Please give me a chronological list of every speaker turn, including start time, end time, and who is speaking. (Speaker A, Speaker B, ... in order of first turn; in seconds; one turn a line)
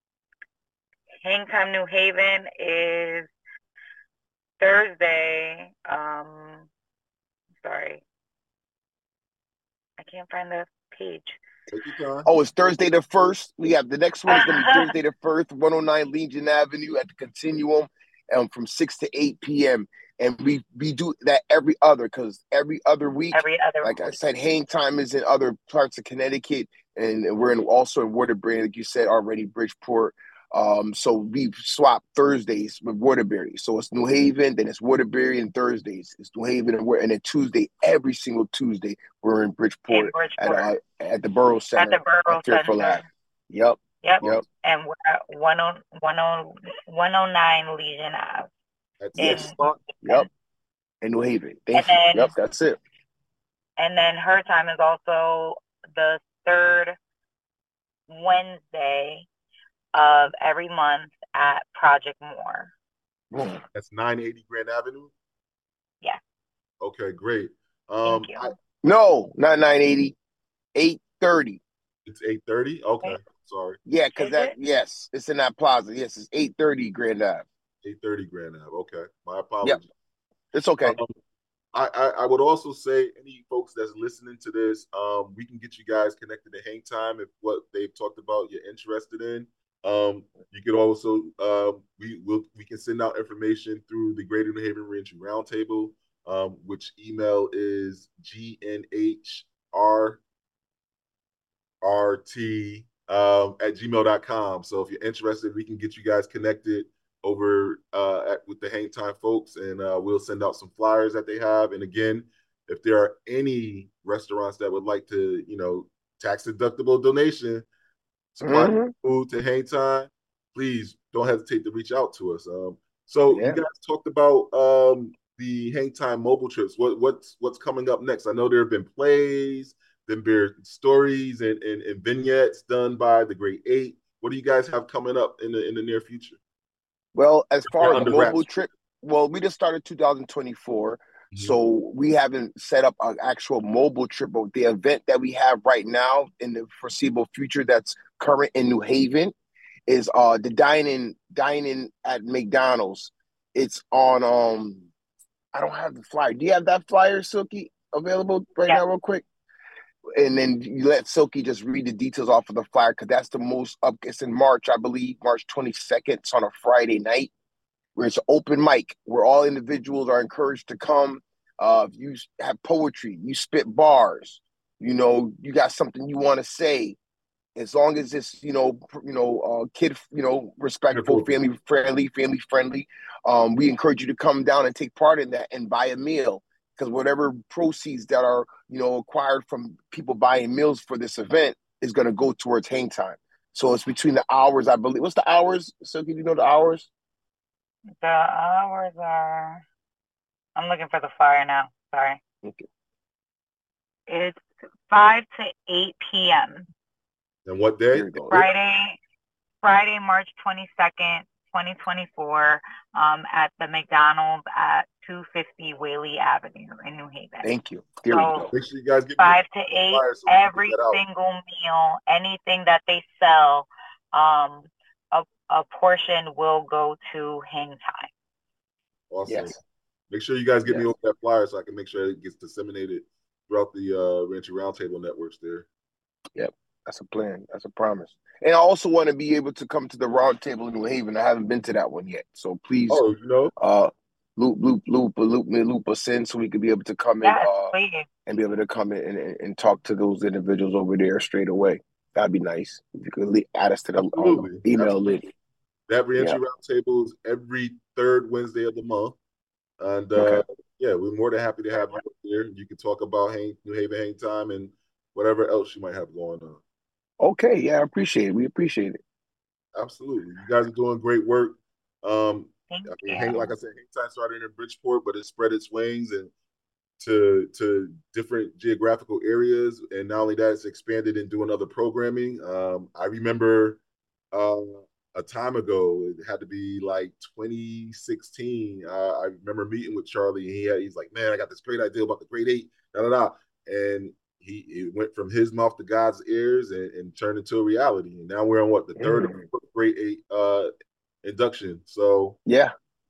Speaker A: 1.2-3.3
Speaker A: 4.6-6.7
Speaker A: 7.6-8.0
Speaker A: 10.0-11.4
Speaker B: 11.7-12.3
Speaker C: 12.2-44.5
Speaker A: 14.3-14.9
Speaker A: 23.3-24.1
Speaker A: 39.9-40.7
Speaker A: 41.8-43.0
Speaker A: 44.0-48.5
Speaker B: 49.0-49.8
Speaker A: 49.1-50.2
Speaker C: 49.2-49.5
Speaker C: 51.0-52.8
Speaker A: 51.7-52.3
Speaker A: 53.8-57.0
Speaker A: 58.1-59.3
Speaker A: 59.9-62.7
Speaker C: 63.3-63.6
Speaker B: 63.7-65.1
Speaker B: 66.8-68.5
Speaker A: 68.0-68.5
Speaker C: 68.8-70.2
Speaker C: 70.7-71.6
Speaker B: 72.0-73.8
Speaker C: 73.8-77.5
Speaker A: 74.2-74.5
Speaker B: 77.8-79.8
Speaker C: 80.5-81.0
Speaker B: 80.8-81.1
Speaker B: 81.7-100.2
Speaker B: 101.8-117.7
Speaker B: 118.3-136.4
Speaker C: 118.4-118.9
Speaker C: 123.3-123.6
Speaker C: 137.1-149.3
Speaker B: 137.7-138.5
Speaker C: 149.9-154.9
Speaker C: 155.5-159.2
Speaker C: 160.2-167.3
Speaker C: 167.9-177.0
Speaker C: 177.6-196.9
Speaker B: 180.9-181.3
Speaker A: 198.0-199.6
Speaker A: 200.6-202.2
Speaker A: 204.1-206.7
Speaker B: 207.4-208.1
Speaker C: 207.9-208.5
Speaker A: 208.2-209.0
Speaker A: 209.6-217.5
Speaker C: 217.4-218.5
Speaker A: 218.1-218.4
Speaker B: 218.5-221.0
Speaker A: 219.2-228.1
Speaker B: 229.1-229.6
Speaker C: 229.3-229.5
Speaker B: 230.1-235.7
Speaker C: 236.3-243.0
Speaker B: 242.9-243.5
Speaker C: 243.6-247.7
Speaker A: 247.2-248.1
Speaker C: 248.3-255.3
Speaker B: 254.0-255.0
Speaker B: 255.9-259.1
Speaker B: 259.8-266.6
Speaker C: 260.1-260.4
Speaker C: 267.2-269.0
Speaker B: 269.7-276.3
Speaker A: 272.7-273.5
Speaker B: 277.0-283.8
Speaker B: 284.3-300.7
Speaker C: 299.0-299.4
Speaker B: 301.2-302.4
Speaker C: 302.5-302.7